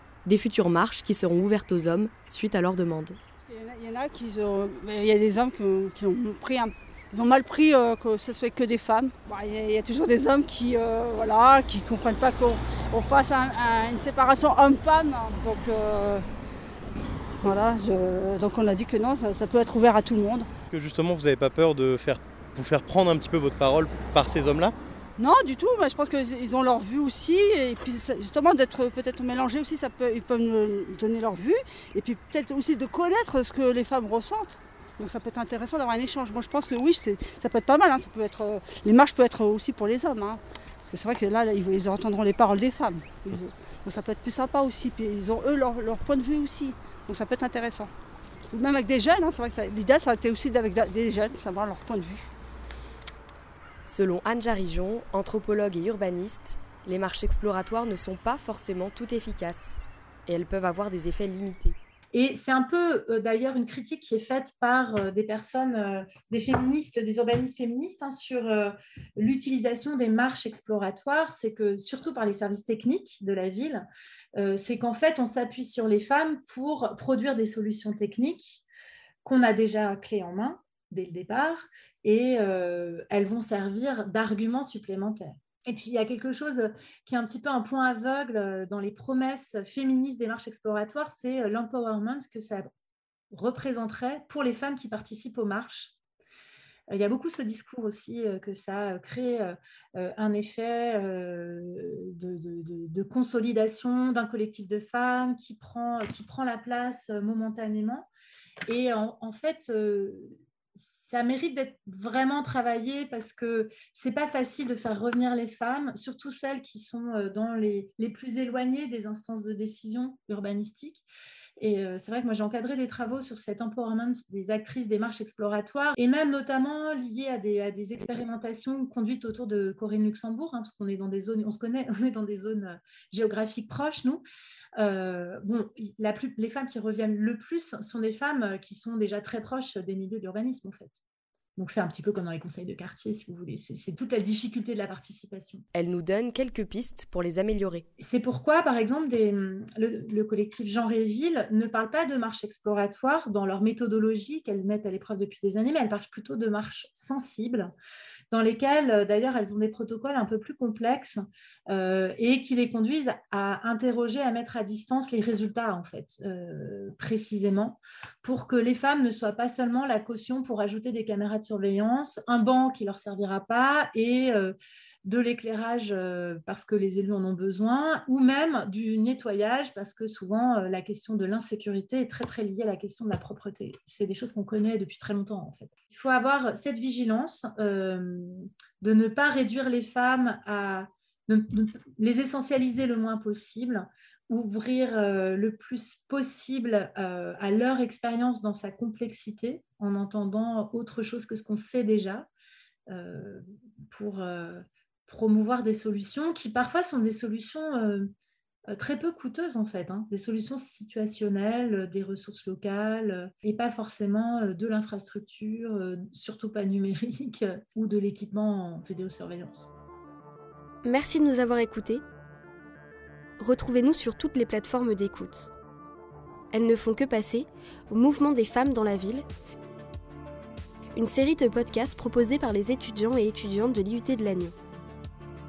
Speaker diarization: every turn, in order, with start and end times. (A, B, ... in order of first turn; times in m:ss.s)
0:00.2-0:03.2 A
0:03.4-0:16.2 B
0:17.4-0:20.5 B
0:20.7-0:24.8 C
0:25.2-0:47.9 B
0:48.5-0:52.3 B
0:53.9-1:01.8 A
1:02.1-1:13.8 D
1:14.4-1:18.6 D
1:19.2-1:32.6 D
1:33.3-1:35.9 D
1:36.9-1:48.1 D
1:48.7-1:50.3 D
1:51.0-2:01.0 D
2:01.6-2:14.2 D
2:14.8-2:20.9 D
2:21.6-2:25.6 D
2:25.7-2:27.8 A
2:28.0-2:37.7 D
2:38.3-2:54.5 D
2:55.0-3:22.3 D
3:22.9-3:28.0 D
3:28.7-3:39.6 D
3:40.8-3:42.0 E
3:43.4-3:45.5 E
3:46.5-3:49.2 E
3:50.9-3:54.5 E